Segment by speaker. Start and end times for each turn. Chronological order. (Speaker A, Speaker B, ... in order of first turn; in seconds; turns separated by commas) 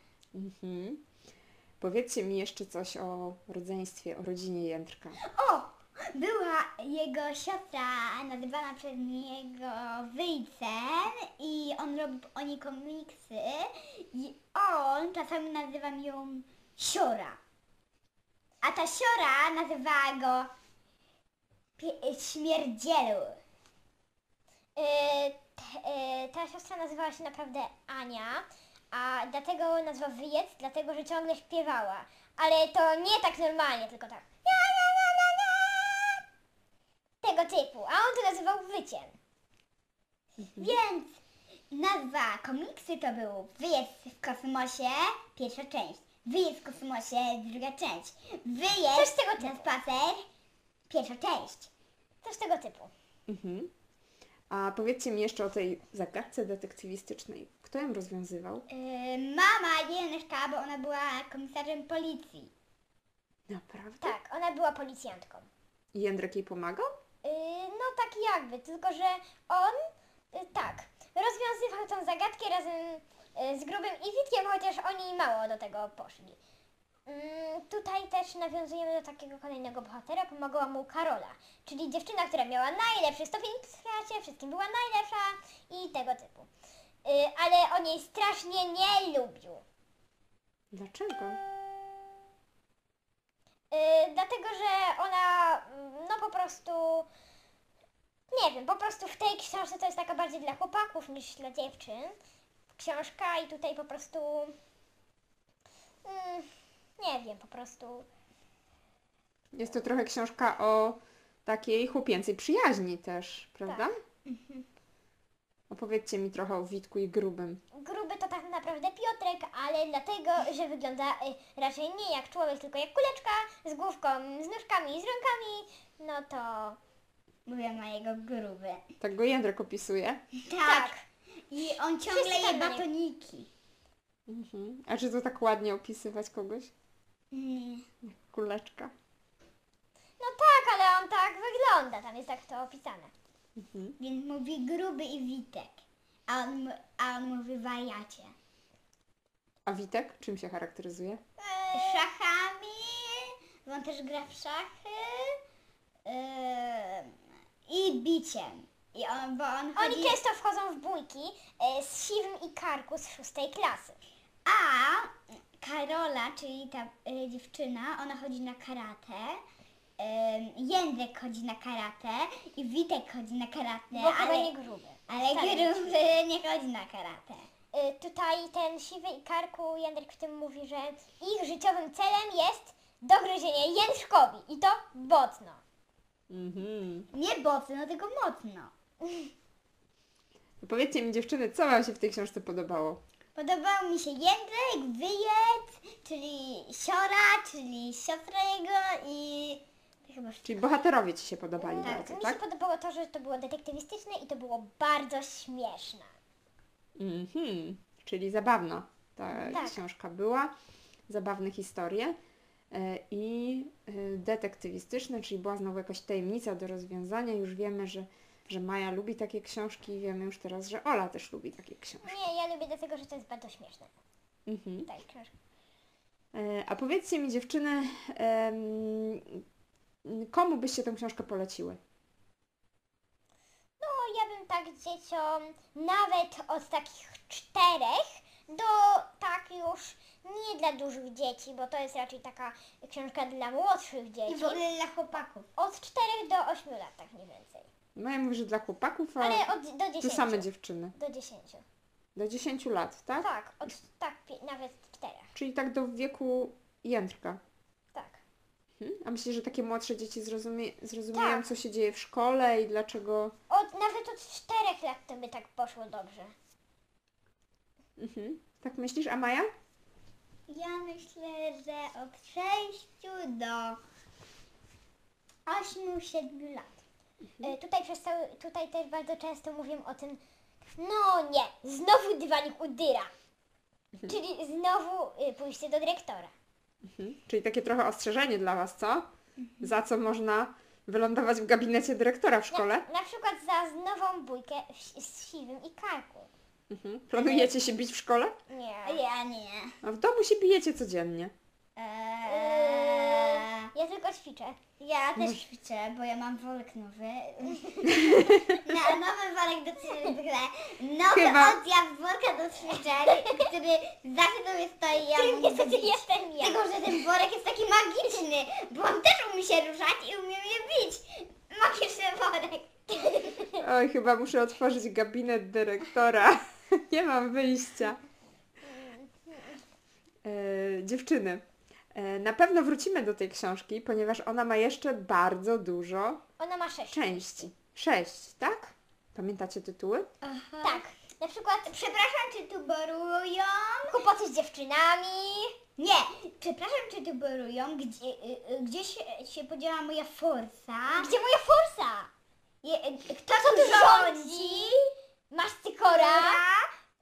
Speaker A: 0.3-1.0, Speaker A: 1.8-5.2, Speaker B: 5.2-17.4, Speaker B: 18.6-20.5, Speaker B: 21.8-23.4, Speaker C: 24.8-36.2, Speaker C: 37.2-39.1, Speaker B: 40.5-50.2, Speaker C: 48.9-49.6, Speaker B: 50.9-51.7, Speaker C: 52.2-52.9, Speaker A: 53.3-53.7, Speaker A: 54.5-58.6, Speaker B: 58.7-62.5, Speaker A: 63.5-64.1, Speaker C: 64.0-65.5, Speaker A: 65.9-66.9, Speaker C: 67.2-69.8, Speaker C: 70.3-76.4, Speaker C: 77.1-86.5, Speaker C: 87.0-89.6, Speaker A: 90.7-91.4, Speaker C: 91.2-91.9, Speaker C: 93.7-97.1, Speaker C: 98.3-102.1, Speaker C: 102.8-104.5, Speaker C: 106.0-108.1, Speaker A: 109.5-114.0, Speaker B: 114.3-114.6, Speaker A: 115.7-117.6, Speaker C: 117.7-126.8, Speaker B: 127.5-128.8, Speaker A: 129.0-130.2, Speaker B: 130.4-131.0, Speaker C: 130.6-131.0, Speaker B: 131.5-133.5, Speaker C: 132.1-132.8, Speaker A: 134.3-136.7, Speaker B: 137.3-137.8, Speaker A: 138.0-138.9, Speaker C: 140.2-143.1, Speaker A: 143.6-143.9, Speaker B: 144.0-148.3, Speaker A: 149.7-151.2, Speaker C: 151.4-152.1, Speaker B: 151.7-155.3, Speaker B: 156.1-157.1, Speaker B: 157.7-160.2, Speaker C: 159.8-164.0, Speaker B: 164.4-169.4, Speaker B: 170.0-174.5, Speaker C: 173.9-175.9, Speaker B: 175.1-177.5, Speaker C: 177.7-185.6, Speaker A: 186.3-187.1, Speaker B: 187.1-188.7, Speaker A: 190.6-193.0, Speaker B: 193.3-200.6, Speaker A: 200.4-202.4, Speaker C: 201.6-206.1, Speaker A: 207.0-210.5, Speaker C: 209.4-209.8, Speaker A: 211.1-212.1, Speaker A: 212.7-222.2, Speaker C: 222.0-223.9, Speaker A: 224.5-224.9, Speaker C: 224.8-225.3, Speaker A: 226.3-229.4, Speaker A: 230.0-231.8, Speaker C: 233.8-244.6, Speaker B: 244.3-245.5, Speaker C: 245.6-247.7, Speaker A: 247.9-249.5, Speaker C: 249.2-251.6, Speaker A: 250.0-250.9, Speaker A: 252.2-253.3, Speaker C: 253.2-255.3, Speaker A: 255.3-257.4, Speaker C: 257.9-258.2, Speaker A: 258.8-263.3, Speaker C: 261.1-261.4, Speaker C: 263.5-266.3, Speaker A: 268.0-269.5, Speaker B: 270.5-273.8, Speaker B: 275.4-276.7, Speaker C: 277.4-280.2, Speaker C: 280.8-283.1, Speaker C: 284.1-286.3, Speaker A: 286.9-289.1, Speaker B: 289.4-289.7, Speaker A: 289.6-292.8, Speaker C: 292.5-296.3, Speaker A: 296.7-298.3, Speaker C: 298.5-299.0, Speaker B: 298.8-299.8, Speaker A: 299.8-301.3, Speaker B: 301.8-303.7, Speaker C: 302.3-304.6, Speaker B: 304.8-323.5, Speaker A: 311.1-311.6, Speaker C: 315.1-316.6, Speaker A: 323.6-328.0, Speaker C: 328.7-329.6, Speaker A: 330.2-336.2, Speaker C: 336.4-337.5, Speaker A: 336.9-340.1, Speaker B: 340.2-340.8, Speaker C: 340.6-341.8, Speaker B: 341.7-344.0, Speaker C: 343.9-345.5, Speaker B: 345.8-351.1, Speaker C: 350.9-352.1, Speaker B: 352.6-354.9, Speaker C: 353.3-354.7, Speaker C: 355.3-356.4, Speaker B: 355.8-356.6